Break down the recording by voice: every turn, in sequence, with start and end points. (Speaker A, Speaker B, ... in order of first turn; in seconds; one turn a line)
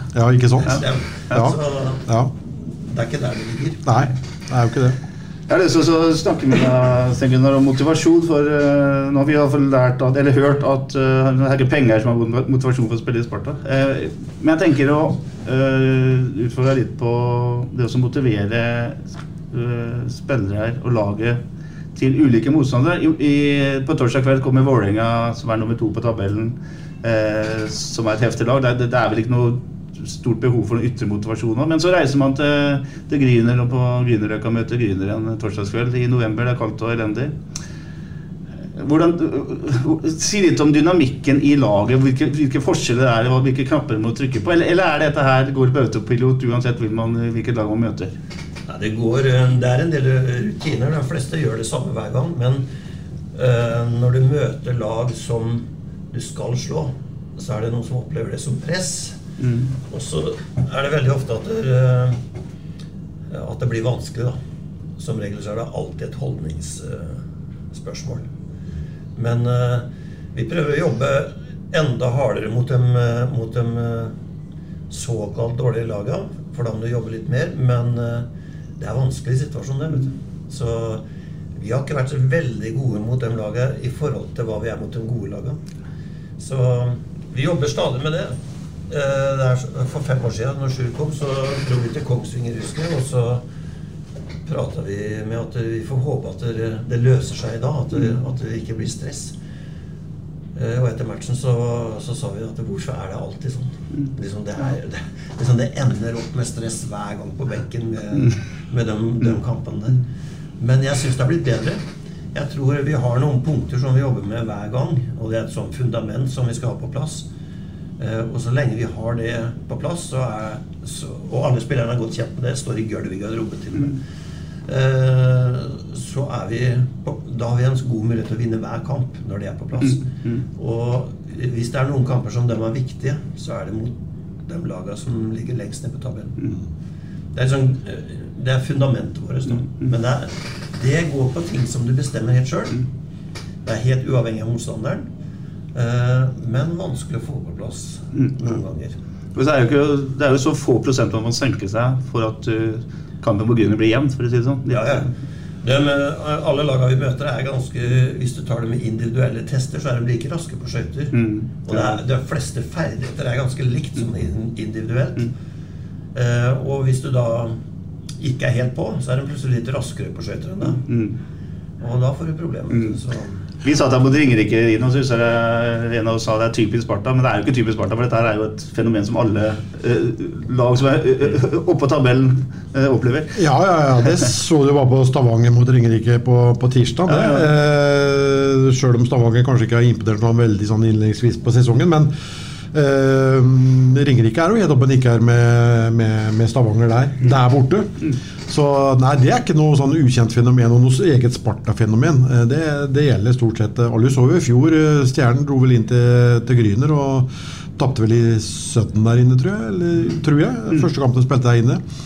Speaker A: 0.1-2.3
Speaker B: 0.6-3.9
Speaker A: 3.8-5.0
Speaker C: 5.5-21.4
Speaker C: 21.9-37.3
Speaker C: 38.8-48.1
Speaker B: 48.7-52.6
Speaker B: 53.3-59.2
Speaker C: 59.4-59.8
Speaker B: 59.9-62.2
Speaker B: 63.3-64.4
Speaker B: 65.0-67.2
Speaker B: 67.7-68.3
Speaker B: 69.2-74.1
Speaker B: 74.9-78.2
Speaker B: 78.8-81.0
Speaker B: 81.5-85.6
Speaker B: 86.4-88.3
Speaker B: 88.9-93.4
Speaker B: 94.5-99.3
Speaker B: 100.5-110.0
Speaker B: 110.6-111.8
Speaker B: 112.3-117.3
Speaker B: 118.0-124.0
Speaker B: 124.7-130.0
Speaker C: 129.8-130.4
Speaker B: 130.5-136.4
Speaker B: 137.3-142.8
Speaker B: 143.7-145.1
Speaker B: 145.7-148.9
Speaker C: 149.3-155.0
Speaker B: 154.7-155.1
Speaker B: 155.6-165.3
Speaker C: 161.1-162.0
Speaker B: 166.1-167.6
Speaker B: 168.2-170.8
Speaker C: 170.6-171.2
Speaker B: 171.8-173.4
Speaker C: 173.6-183.4
Speaker A: 183.3-192.1
Speaker C: 187.1-187.5
Speaker A: 192.7-211.8